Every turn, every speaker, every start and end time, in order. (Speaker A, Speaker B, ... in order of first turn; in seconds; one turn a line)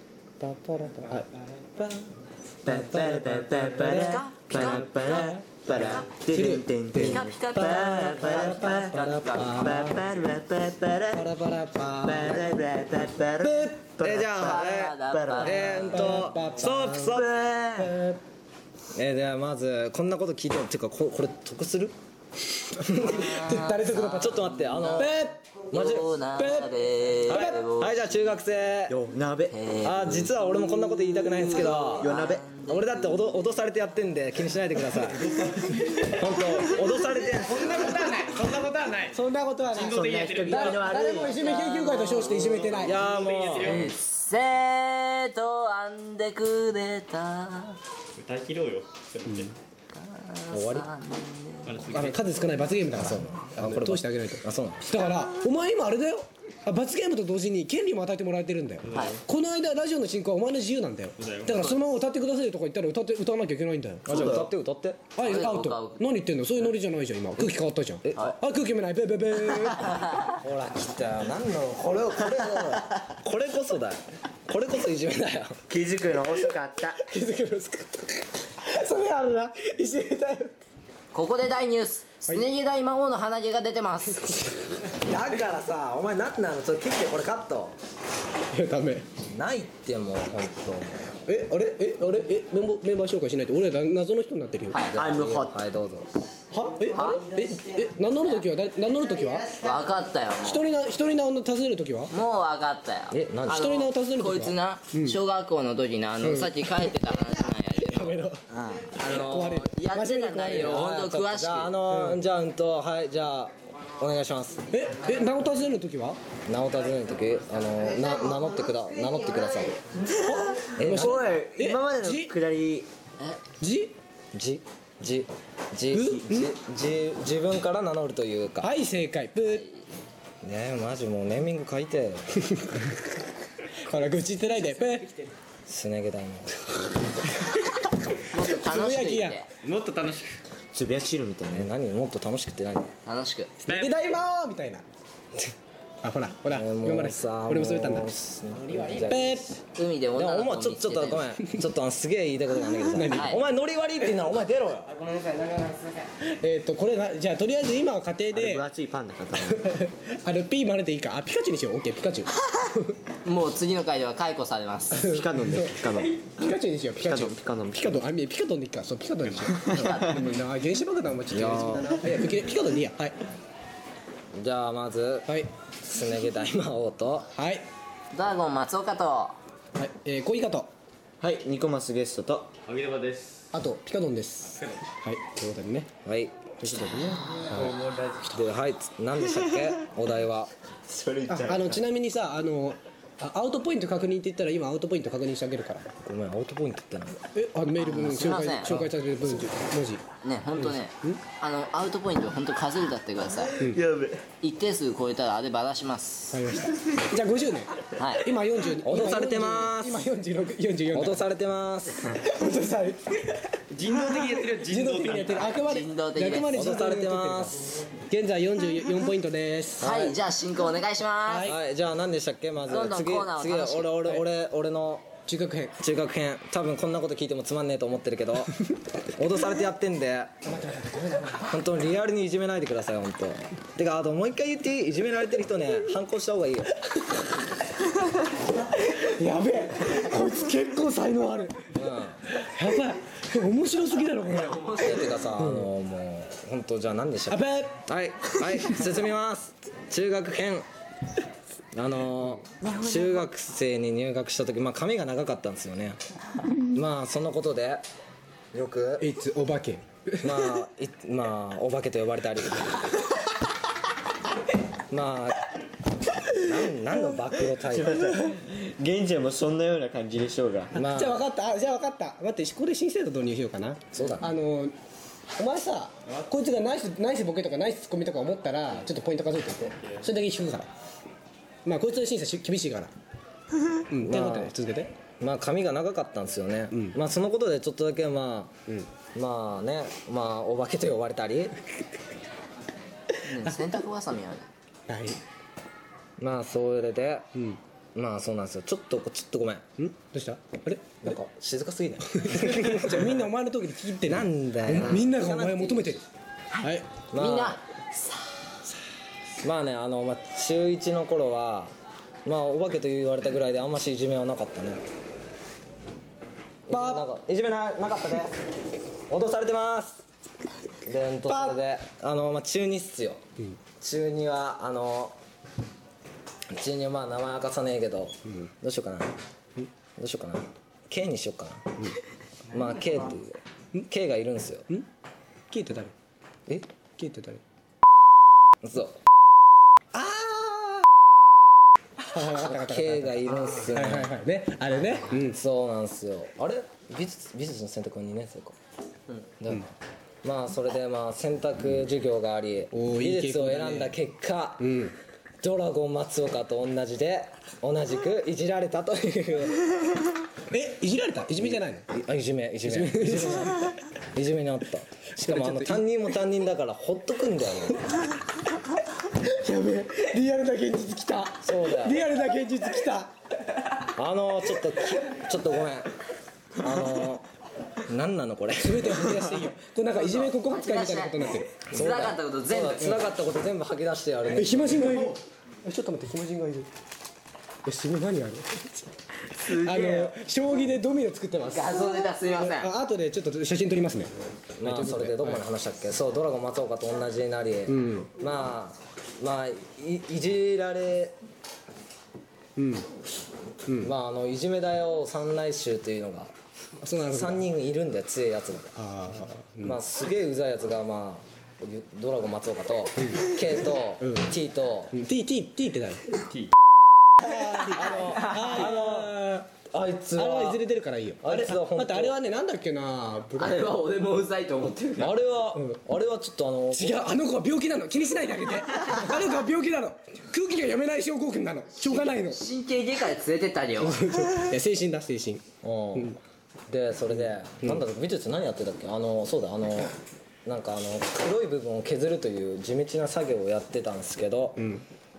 Speaker A: 0.4-1.3
Speaker B: 2.6-11.3
Speaker C: 2.7-3.8
Speaker D: 3.8-6.2
Speaker A: 6.3-7.2
Speaker D: 7.0-9.6
Speaker A: 8.3-9.9
Speaker C: 9.3-10.0
Speaker A: 11.1-12.4
Speaker B: 12.0-15.5
Speaker A: 13.4-14.0
Speaker C: 14.0-17.3
Speaker D: 14.4-16.2
Speaker A: 15.4-17.2
Speaker B: 17.0-17.9
Speaker A: 17.8-18.2
Speaker C: 18.9-21.9
Speaker A: 22.8-24.4
Speaker D: 23.0-25.1
Speaker C: 24.2-25.1
Speaker A: 25.0-25.6
Speaker C: 25.7-26.2
Speaker D: 25.7-28.0
Speaker A: 26.4-26.7
Speaker C: 27.3-29.0
Speaker A: 27.3-27.6
Speaker B: 28.9-29.6
Speaker D: 29.5-33.2
Speaker C: 29.8-32.1
Speaker B: 31.4-32.5
Speaker C: 32.7-35.4
Speaker A: 35.7-36.1
Speaker C: 36.1-38.1
Speaker A: 37.2-43.1
Speaker E: 39.7-41.0
Speaker B: 39.7-41.4
Speaker D: 41.2-42.7
Speaker E: 42.3-43.9
Speaker C: 42.8-43.9
Speaker D: 43.5-47.8
Speaker E: 48.2-49.5
Speaker D: 49.9-51.8
Speaker C: 50.5-50.9
Speaker E: 51.7-52.2
Speaker A: 51.9-64.4
Speaker C: 52.9-54.9
Speaker E: 58.9-59.1
Speaker D: 58.9-59.2
Speaker E: 61.2-61.7
Speaker C: 64.1-65.1
Speaker B: 64.1-64.5
Speaker A: 65.2-70.2
Speaker D: 65.2-66.0
Speaker C: 68.0-68.3
Speaker C: 70.3-75.6
Speaker B: 75.7-77.0
Speaker A: 76.5-80.5
Speaker D: 81.1-84.7
Speaker A: 84.1-84.9
Speaker C: 85.0-87.8
Speaker A: 88.5-89.1
Speaker C: 89.3-91.1
Speaker A: 91.2-94.8
Speaker D: 94.7-95.0
Speaker C: 94.9-96.1
Speaker B: 95.0-95.6
Speaker A: 96.5-99.6
Speaker D: 96.9-97.2
Speaker D: 99.6-100.7
Speaker A: 100.4-102.2
Speaker D: 102.1-108.2
Speaker C: 103.1-103.8
Speaker A: 103.5-105.2
Speaker A: 106.2-108.4
Speaker C: 108.7-109.0
Speaker D: 108.9-111.8
Speaker A: 109.0-110.9
Speaker C: 110.5-114.7
Speaker A: 111.9-112.2
Speaker A: 114.7-116.2
Speaker C: 116.5-119.8
Speaker B: 119.9-122.9
Speaker A: 120.3-122.3
Speaker C: 120.8-121.2
Speaker D: 123.2-123.5
Speaker A: 123.5-124.0
Speaker C: 124.3-128.7
Speaker A: 125.9-126.6
Speaker A: 128.6-129.6
Speaker D: 129.5-129.9
Speaker C: 130.4-132.2
Speaker A: 132.3-133.2
Speaker A: 133.7-135.3
Speaker C: 135.7-136.6
Speaker A: 137.3-139.4
Speaker D: 138.3-139.5
Speaker E: 139.6-140.4
Speaker B: 140.7-141.7
Speaker C: 141.5-142.9
Speaker D: 143.1-143.5
Speaker A: 143.6-144.8
Speaker E: 143.7-144.0
Speaker A: 146.0-149.6
Speaker C: 146.5-149.5
Speaker D: 149.7-151.3
Speaker C: 150.2-155.0
Speaker A: 152.7-153.4
Speaker D: 153.1-153.4
Speaker D: 155.1-156.0
Speaker A: 156.2-158.7
Speaker B: 158.3-159.7
Speaker A: 159.4-163.0
Speaker D: 163.2-165.1
Speaker A: 164.9-173.2
Speaker B: 165.1-166.4
Speaker B: 167.0-168.0
Speaker B: 169.5-170.2
Speaker D: 169.8-170.2
Speaker C: 171.3-171.9
Speaker B: 171.5-172.3
Speaker C: 174.4-175.3
Speaker C: 175.8-177.3
Speaker A: 177.3-177.7
Speaker D: 178.1-179.4
Speaker A: 179.8-180.7
Speaker B: 181.2-182.5
Speaker E: 182.7-183.5
Speaker A: 183.5-185.9
Speaker C: 186.1-187.0
Speaker A: 186.6-187.7
Speaker E: 187.5-188.4
Speaker C: 187.5-190.5
Speaker B: 190.9-191.8
Speaker A: 191.3-195.9
Speaker C: 196.0-197.2
Speaker A: 197.3-201.3
Speaker D: 197.8-198.9
Speaker C: 198.7-199.4
Speaker D: 200.2-203.6
Speaker B: 203.4-204.2
Speaker D: 204.4-206.4
Speaker A: 206.3-211.3
Speaker D: 207.9-208.3
Speaker C: 208.8-210.0
Speaker C: 210.9-212.1
Speaker A: 212.0-219.9
Speaker E: 213.7-215.6
Speaker D: 215.5-216.5
Speaker C: 216.5-217.6
Speaker C: 219.8-220.2
Speaker D: 219.8-221.5
Speaker A: 221.2-221.6
Speaker C: 221.4-225.1
Speaker D: 222.7-223.9
Speaker A: 224.0-224.3
Speaker A: 225.2-225.8
Speaker C: 225.8-228.6
Speaker C: 229.2-230.3
Speaker A: 230.4-231.6
Speaker C: 231.5-236.8
Speaker A: 236.8-237.1
Speaker A: 238.6-245.7
Speaker C: 241.8-242.2
Speaker D: 244.2-245.3
Speaker C: 244.8-250.7
Speaker A: 247.3-249.0
Speaker C: 251.7-256.0
Speaker C: 256.6-257.9
Speaker C: 258.5-259.1
Speaker A: 259.0-260.6
Speaker C: 260.2-262.9
Speaker C: 264.9-265.4
Speaker C: 266.4-268.0
Speaker B: 267.7-270.8
Speaker A: 268.1-268.4
Speaker C: 270.7-271.2
Speaker A: 270.7-274.7
Speaker C: 273.9-274.3
Speaker A: 275.4-280.7
Speaker A: 281.6-282.9
Speaker A: 283.9-284.9
Speaker C: 284.0-284.5
Speaker C: 285.2-288.6
Speaker A: 286.7-287.0
Speaker C: 289.1-291.5
Speaker D: 293.2-294.5
Speaker A: 294.9-295.2
Speaker C: 296.2-297.3
Speaker C: 297.9-299.6
Speaker A: 299.8-301.2
Speaker C: 301.0-303.3
Speaker A: 302.0-306.1
Speaker C: 304.0-306.0
Speaker D: 306.6-308.4
Speaker A: 306.6-307.1
Speaker C: 307.1-307.6
Speaker C: 309.4-311.7
Speaker C: 312.2-314.8
Speaker C: 316.7-318.3
Speaker A: 316.7-317.1
Speaker C: 319.1-320.0
Speaker C: 320.9-323.2
Speaker A: 321.3-321.6
Speaker C: 323.8-325.2
Speaker C: 326.5-329.1
Speaker C: 330.0-331.7
Speaker C: 332.5-334.7
Speaker A: 335.5-335.9
Speaker A: 337.0-337.4
Speaker C: 338.6-339.0
Speaker A: 339.9-340.9
Speaker A: 342.0-345.4
Speaker C: 342.3-344.1
Speaker C: 345.1-348.6
Speaker C: 349.4-349.7
Speaker C: 350.2-354.8
Speaker A: 352.7-354.0
Speaker A: 354.6-355.0
Speaker C: 355.4-359.7
Speaker A: 360.5-362.0
Speaker C: 361.4-367.8
Speaker A: 362.7-363.8
Speaker A: 365.1-365.9
Speaker A: 369.1-373.1
Speaker C: 371.4-372.0
Speaker C: 374.0-375.9
Speaker C: 376.6-377.3
Speaker C: 377.8-379.1
Speaker A: 378.6-381.8
Speaker D: 380.0-383.0
Speaker C: 381.7-385.0
Speaker A: 382.8-383.2
Speaker A: 384.3-386.7
Speaker A: 387.6-395.5
Speaker D: 389.3-390.1
Speaker D: 391.5-392.7
Speaker C: 394.6-401.2
Speaker A: 397.7-398.1
Speaker A: 402.6-402.9
Speaker A: 403.7-403.9
Speaker C: 403.8-406.3
Speaker A: 406.8-407.5
Speaker C: 407.0-408.8
Speaker A: 408.8-409.8
Speaker C: 409.6-415.0
Speaker A: 413.0-413.3
Speaker A: 414.0-414.4
Speaker A: 414.9-416.2
Speaker A: 417.2-419.5
Speaker C: 417.7-420.6
Speaker A: 420.2-423.8
Speaker C: 421.2-422.2
Speaker D: 423.4-425.2
Speaker C: 425.0-427.0
Speaker A: 426.7-432.4
Speaker D: 431.9-434.1
Speaker A: 433.8-435.4
Speaker C: 435.6-436.2
Speaker C: 436.7-439.9
Speaker A: 437.1-437.9
Speaker C: 440.5-444.7
Speaker A: 444.6-444.9